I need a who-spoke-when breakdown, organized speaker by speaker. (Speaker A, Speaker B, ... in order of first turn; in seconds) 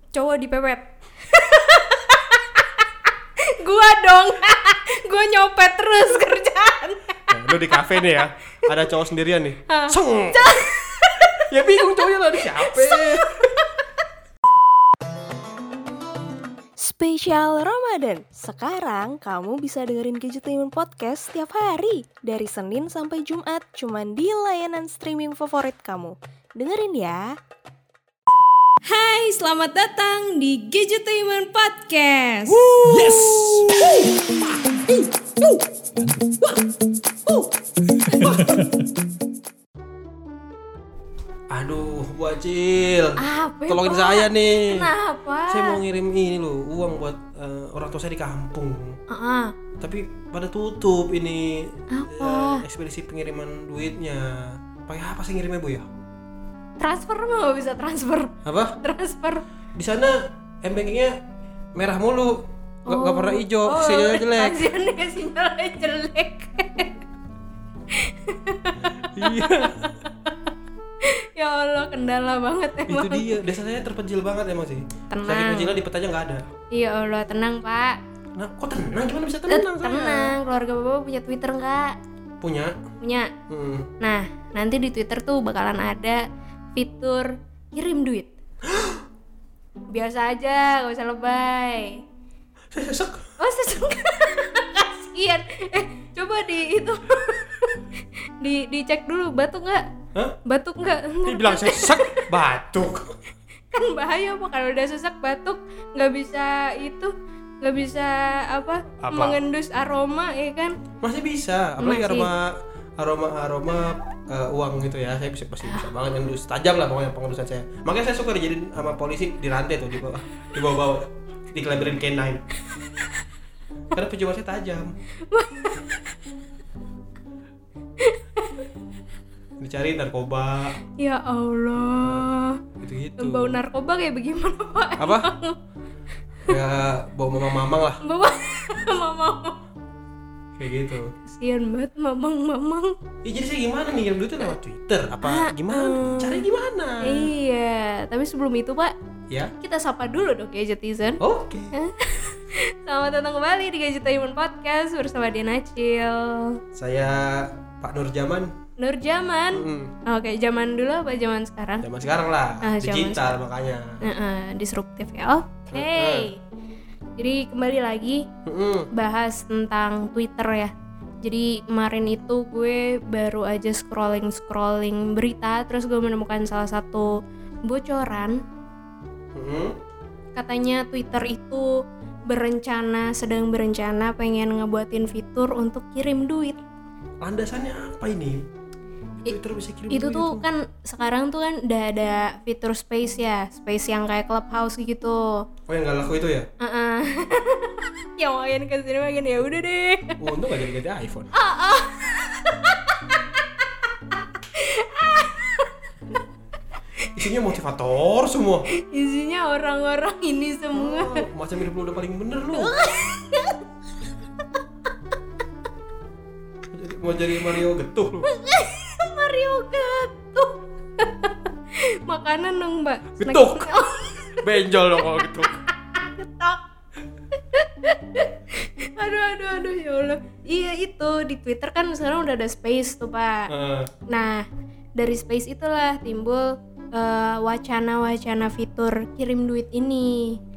Speaker A: 0.1-2.9, 3.4-8.7, 9.7-13.9, 28.9-33.8, 38.1-38.5, 43.2-45.8, 49.1-49.5, 51.9-52.6, 56.8-59.4, 62.9-66.9, 67.9-69.7, 71.0-73.3, 75.1-75.8, 76.7-78.0, 79.5-82.0, 83.0-83.3, 84.0-86.2, 86.8-88.3, 89.9-92.0, 93.4-97.9, 98.4-99.9, 100.5-102.3, 103.7-110.8, 111.8-112.3, 115.7-115.9, 125.3-126.2, 128.0-128.7, 131.0-132.6, 133.2-135.6, 138.0-139.6, 141.3-143.0, 145.2-146.5, 147.0-148.9, 149.6-151.2, 151.7-156.6, 158.8-161.9, 162.6-163.4, 164.0-166.4, 167.2-168.3, 168.9-177.1, 177.7-178.4, 180.3-181.7, 182.3-186.6, 189.9-195.4, 196.6-200.2, 201.3-203.9, 204.4-206.2, 208.8-211.2, 212.5-213.6, 218.2-224.4, 225.9-226.6, 227.5-233.5, 234.1-234.4, 235.0-240.4
Speaker B: 7.3-10.6, 11.5-13.5, 41.5-44.9, 45.5-49.0, 49.8-55.9, 58.5-58.8, 59.8-61.1, 61.8-64.6, 68.8-70.0, 72.9-76.5, 78.4-80.4, 82.4-82.8, 83.5-83.9, 88.7-89.0, 92.7-93.3, 101.3-103.1, 109.0-109.4, 111.0-122.4, 123.9-124.9, 129.6-130.8, 132.0-132.3, 132.8-133.6, 135.0-135.3, 136.5-138.0, 140.6-141.1, 143.2-147.3, 151.2-151.7, 156.7-158.5, 159.5-159.9, 161.8-164.0, 165.7-166.3, 168.5-168.9, 179.3-179.8, 187.2-188.4, 189.2-190.4, 195.7-196.5, 200.2-201.3, 207.2-208.7, 210.8-212.8, 216.7-218.3, 223.2-223.8, 224.4-225.6, 233.5-233.9
Speaker C: 16.8-27.4